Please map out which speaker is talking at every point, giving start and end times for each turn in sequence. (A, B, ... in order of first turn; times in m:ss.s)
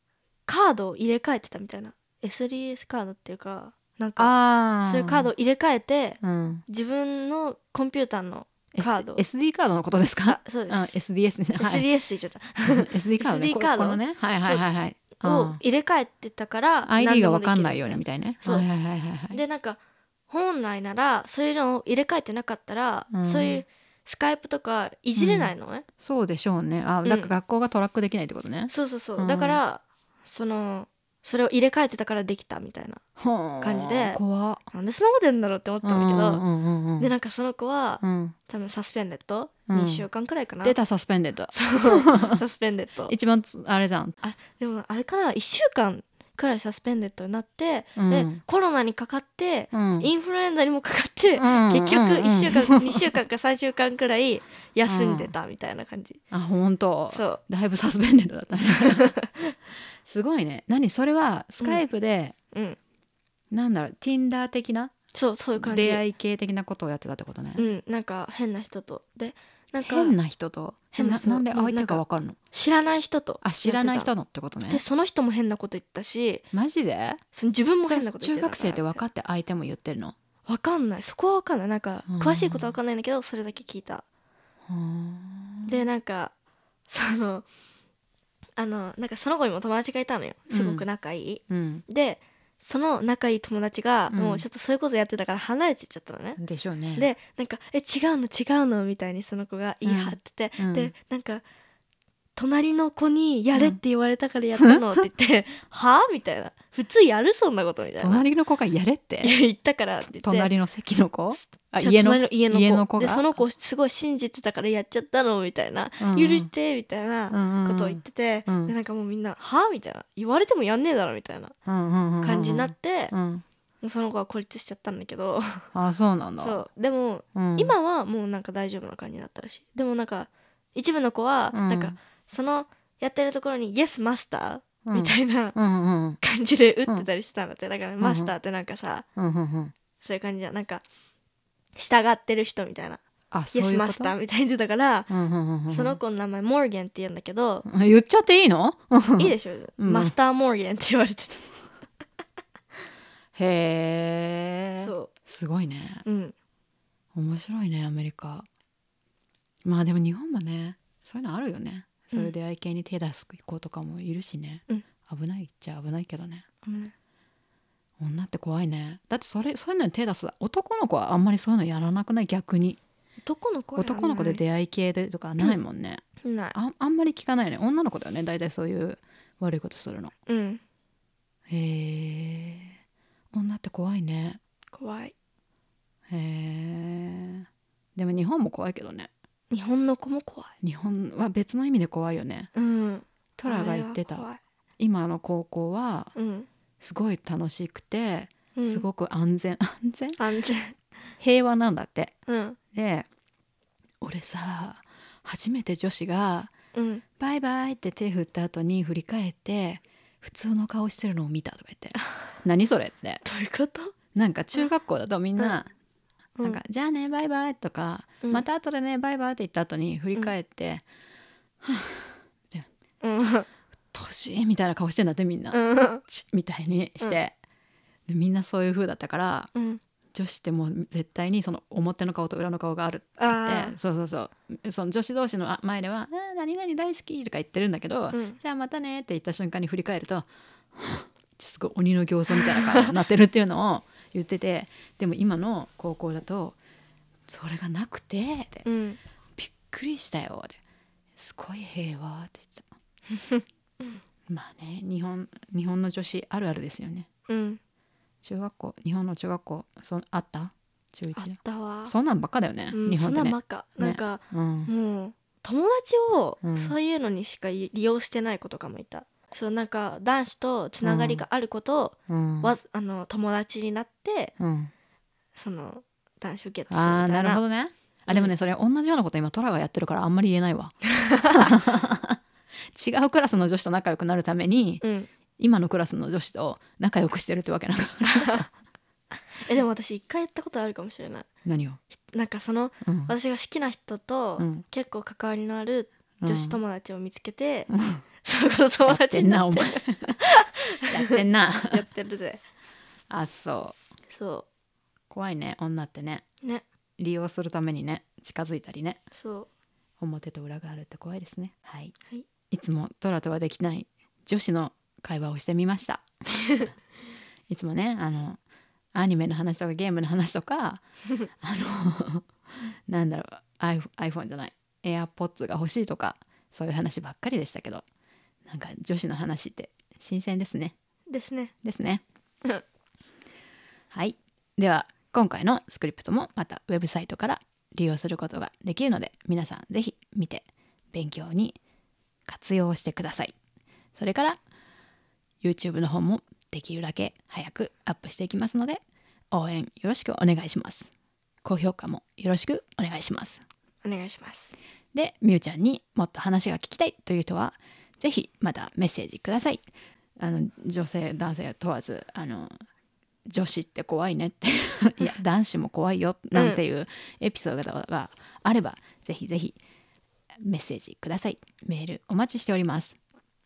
0:00.5-0:09.2 A
0:04.2-0:05.3 B
0:06.2-0:06.6 B
0:08.7-0:11.9 B
0:10.3-0:11.0 A
0:11.6-0:14.6 A
0:12.7-0:15.6 B
0:15.2-0:18.7 A
0:16.9-0:19.4 B
0:19.3-0:25.8 A
0:23.1-0:23.6 B
0:25.2-0:29.6 B
0:27.0-0:27.3 A
0:28.7-0:33.0 A
0:33.2-0:34.6 B
0:33.6-0:36.4 A
0:35.8-0:37.1 B
0:37.0-0:40.8 A
0:38.0-0:38.4 B
0:39.7-0:40.1 B
0:40.6-0:42.4 B
0:41.5-0:43.1 A
0:43.1-0:44.2 B
0:44.2-0:56.2 A
0:48.0-0:48.4 B
0:49.7-0:50.1 B
0:51.4-0:53.1 B
0:54.9-0:55.3 B
0:56.3-0:59.2 B
0:57.1-0:57.4 A
0:58.6-0:59.3 A
1:00.0-1:02.4 B
1:02.5-1:02.8 A
1:03.5-1:04.9 B
1:05.1-1:06.0 A
1:05.6-1:07.6 B
1:07.6-1:10.2 A
1:09.8-1:12.4 B
1:10.9-1:14.1 A
1:13.4-1:14.8 B
1:14.7-1:16.4 A
1:16.5-1:17.2 B
1:17.3-1:19.0 A
1:17.8-1:20.2 B
1:20.5-1:24.0 A
1:22.1-1:22.8 B
1:24.7-1:25.8 B
1:25.7-1:26.3 A
1:26.9-1:27.5 A
1:28.6-1:36.4 A
1:30.5-1:30.9 B
1:31.5-1:31.8 B
1:34.1-1:34.4 B
1:36.4-1:37.1 B
1:37.0-1:41.4 A
1:39.8-1:40.9 B
1:42.4-1:48.2 A
1:43.5-1:43.8 B
1:48.0-1:49.4 B
1:49.2-1:50.5 A
1:50.0-1:53.3 B
1:51.4-2:01.5 A
1:56.0-1:56.5 B
1:57.3-1:58.7 B
2:01.7-2:03.4 B
2:02.2-2:03.1 A
2:03.8-2:05.7 A
2:05.7-2:06.6 B
2:06.4-2:15.6 A
2:07.4-2:07.7 B
2:11.5-2:12.0 B
2:14.8-2:16.2 B
2:16.2-2:19.0 A
2:18.0-2:18.3 B
2:19.2-2:19.7 B
2:20.0-2:20.8 A
2:21.8-2:23.0 A
2:23.3-2:24.2 B
2:23.5-2:25.1 A
2:25.1-2:26.0 B
2:25.7-2:27.7 A
2:27.7-2:30.1 B
2:29.2-2:31.5 A
2:33.4-2:36.0 B
2:34.8-2:35.1 A
2:36.0-2:36.3 A
2:37.2-2:38.5 B
2:39.6-2:46.4 B
2:46.6-2:46.9 A
2:48.0-2:52.8 B
2:53.2-2:54.4 A
2:53.8-3:00.1 B
2:56.2-2:56.6 A
3:00.3-3:00.6 A
3:01.5-3:02.8 B
3:03.3-3:04.4 B
3:04.7-3:05.1 A
3:06.1-3:09.1 B
3:09.5-3:10.5 A
3:10.6-3:12.5 B
3:12.6-3:14.4 A
3:13.4-3:14.3 B
3:14.8-3:16.1 B
3:16.2-3:16.5 A
3:16.8-3:20.2 B
3:18.6-3:18.8 A
3:20.2-3:20.8 A
3:21.2-3:22.1 B
3:22.3-3:22.6 A
3:22.7-3:23.1 B
3:24.0-3:26.5 B
3:26.7-3:27.0 A
3:27.2-3:33.2 B
3:33.2-3:33.9 A
3:34.2-3:35.7 B
3:36.4-3:40.8 B
3:41.6-3:42.7 B
3:43.0-3:43.5 A
3:43.9-3:47.3 B
3:45.5-3:46.0 A
3:48.1-3:49.5 B
3:49.6-3:49.8 A
3:50.2-4:06.6 B
3:53.2-3:53.8 A
3:58.1-3:58.4 A
4:02.4-4:03.0 A
4:07.3-4:08.7 B
4:08.6-4:09.0 A
4:09.4-4:10.6 B
4:11.2-4:12.7 B
4:13.2-4:14.0 A
4:14.3-4:17.1 B
4:17.3-4:17.6 A
4:18.2-4:24.7 B
4:21.2-4:21.9 A
4:22.7-4:34.3 A
4:26.4-4:26.7 B
4:30.8-4:31.2 B
4:32.1-4:32.6 B
4:34.4-4:34.7 B
4:35.4-4:37.4 A
4:36.7-4:42.2 B
4:41.0-4:41.5 A
4:42.8-4:44.8 B
4:44.8-4:45.1 A
4:45.4-4:48.5 B
4:48.0-4:48.5 A
4:49.4-4:51.3 A
4:51.4-4:51.8 B
4:52.1-4:57.7 A
4:52.8-4:53.1 B
4:54.4-4:54.6 B
4:56.2-4:56.6 B
4:57.7-4:58.0 B
4:58.2-5:02.4 A
4:58.8-5:00.2 B
5:00.8-5:01.8 B
5:03.1-5:03.8 B
5:04.1-5:04.5 A
5:05.1-5:06.2 B
5:07.0-5:09.0 B
5:09.1-5:09.5 A
5:10.0-5:12.0 B
5:12.5-5:16.1 B
5:17.5-5:18.4 B
5:18.9-5:20.8 B
5:21.4-5:22.3 B
5:22.9-5:27.8 B
5:28.5-5:30.8 B
5:31.1-5:31.5 A
5:31.6-5:32.0 B
5:33.9-5:41.6 B
5:42.3-5:43.3 B
5:44.0-5:44.4 B
5:45.4-5:48.8 B
5:49.3-5:50.9 B
5:51.4-5:53.4 B
5:53.8-5:54.6 A
5:54.9-5:59.6 B
6:00.2-6:02.5 B
6:03.3-6:09.6 B
6:06.3-6:06.6 A
6:10.4-6:13.0 B